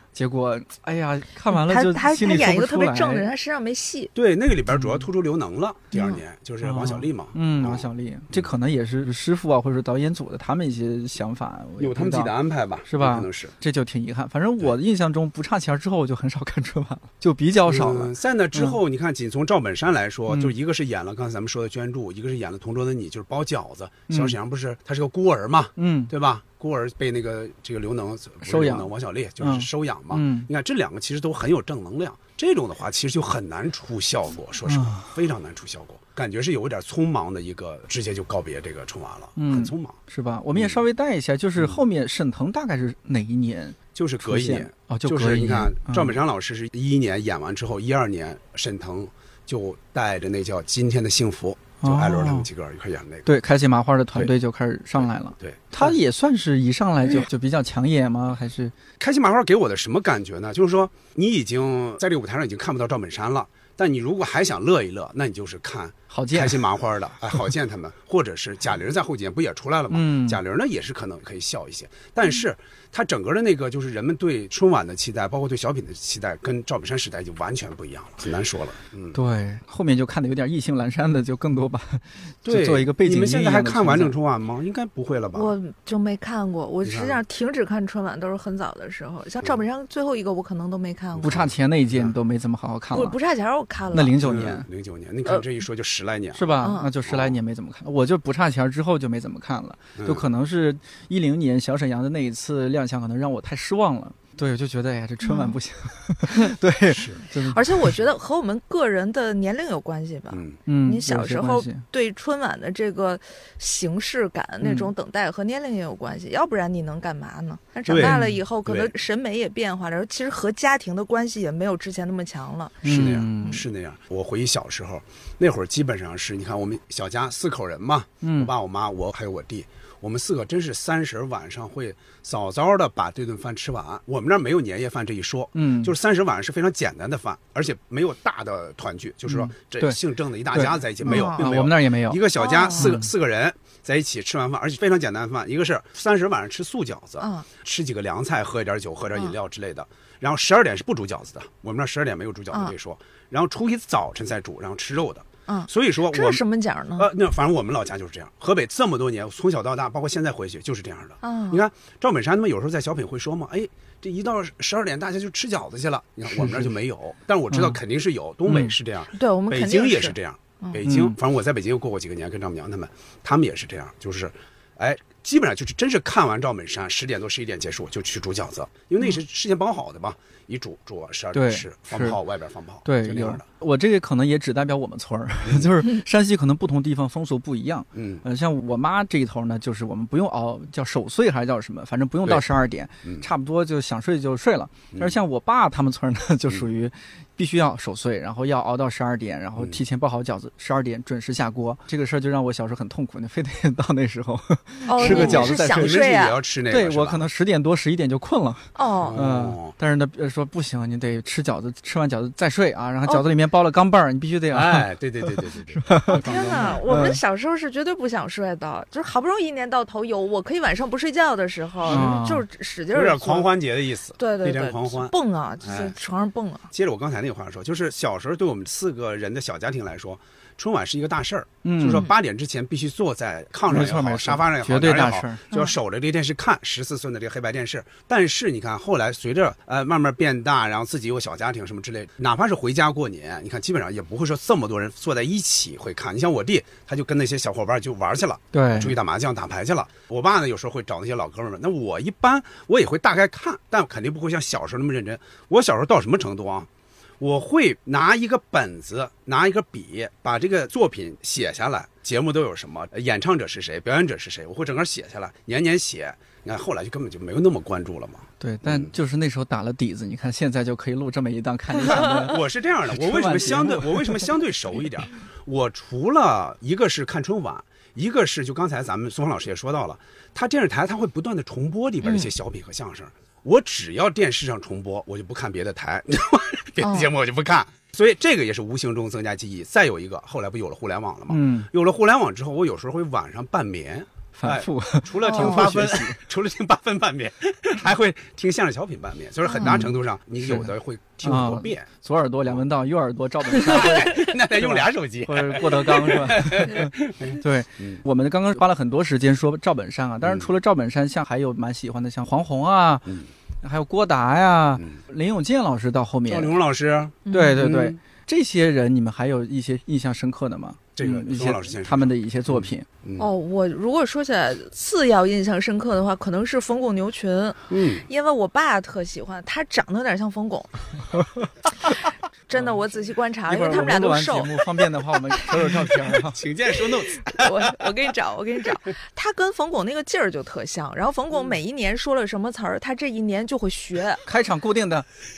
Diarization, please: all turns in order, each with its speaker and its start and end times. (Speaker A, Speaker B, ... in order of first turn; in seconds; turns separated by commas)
Speaker A: 0.1-3.3, Speaker B: 1.5-4.1, Speaker C: 4.2-8.5, Speaker A: 4.7-5.0, Speaker B: 5.9-6.2, Speaker A: 6.6-12.3, Speaker C: 11.8-13.5, Speaker A: 12.9-18.8, Speaker C: 17.7-40.0, Speaker A: 24.1-24.4, Speaker A: 25.8-26.1, Speaker A: 28.4-28.9, Speaker A: 29.4-30.5, Speaker A: 34.7-35.1, Speaker A: 39.4-46.1, Speaker C: 40.5-40.8, Speaker C: 44.0-53.3, Speaker A: 51.8-52.5, Speaker A: 53.3-58.7, Speaker C: 55.4-56.0, Speaker C: 59.0-79.2, Speaker A: 66.1-66.6, Speaker A: 69.9-70.4, Speaker A: 79.1-84.2, Speaker C: 82.5-85.5, Speaker B: 85.3-91.4, Speaker C: 86.8-87.2, Speaker C: 91.2-92.1, Speaker A: 91.2-93.2, Speaker B: 92.9-94.2, Speaker A: 93.9-94.7, Speaker C: 94.2-96.5, Speaker A: 96.3-107.9, Speaker B: 96.6-96.9, Speaker C: 97.1-97.4, Speaker C: 100.0-100.2, Speaker B: 105.2-105.6, Speaker C: 106.9-107.2, Speaker B: 107.4-123.6, Speaker C: 110.3-110.6, Speaker A: 110.7-111.8, Speaker A: 114.6-114.9, Speaker C: 117.9-118.9, Speaker A: 118.0-118.4, Speaker A: 122.8-123.6, Speaker C: 122.8-156.4, Speaker A: 128.2-128.5, Speaker A: 135.6-135.9, Speaker A: 139.3-140.0, Speaker A: 140.5-142.2, Speaker B: 141.1-141.4, Speaker B: 142.4-143.0, Speaker A: 142.8-143.1, Speaker B: 147.2-147.5, Speaker B: 155.5-157.1, Speaker C: 157.0-183.4, Speaker B: 161.2-161.6, Speaker A: 167.5-167.8, Speaker A: 168.5-168.7, Speaker B: 169.1-170.8, Speaker A: 170.8-171.2, Speaker A: 181.3-182.2, Speaker A: 182.8-206.0, Speaker C: 185.4-185.7, Speaker C: 187.9-188.2, Speaker B: 204.9-206.4, Speaker C: 205.0-207.3, Speaker A: 206.7-217.2, Speaker B: 208.8-209.2, Speaker C: 209.0-209.7, Speaker C: 214.5-216.8, Speaker B: 216.1-223.5, Speaker A: 221.9-222.4, Speaker C: 221.9-222.2, Speaker C: 222.9-225.9, Speaker B: 224.2-226.7, Speaker C: 226.7-256.7, Speaker A: 231.6-232.1, Speaker A: 233.7-235.4, Speaker A: 248.5-249.0, Speaker C: 257.2-268.9, Speaker A: 268.4-274.3, Speaker C: 271.8-301.9, Speaker B: 286.8-287.1, Speaker A: 291.3-291.7, Speaker A: 294.4-296.2, Speaker B: 295.2-295.6, Speaker B: 299.5-299.8, Speaker A: 299.6-300.7, Speaker A: 301.2-316.5, Speaker C: 303.6-308.0, Speaker C: 310.2-310.5, Speaker C: 316.3-318.0, Speaker B: 317.3-317.6, Speaker A: 317.3-322.9, Speaker C: 321.0-323.3, Speaker B: 323.2-331.0, Speaker C: 327.7-328.1, Speaker B: 331.9-334.6, Speaker A: 333.5-336.4, Speaker C: 336.1-338.0, Speaker B: 337.3-344.2, Speaker A: 344.3-345.1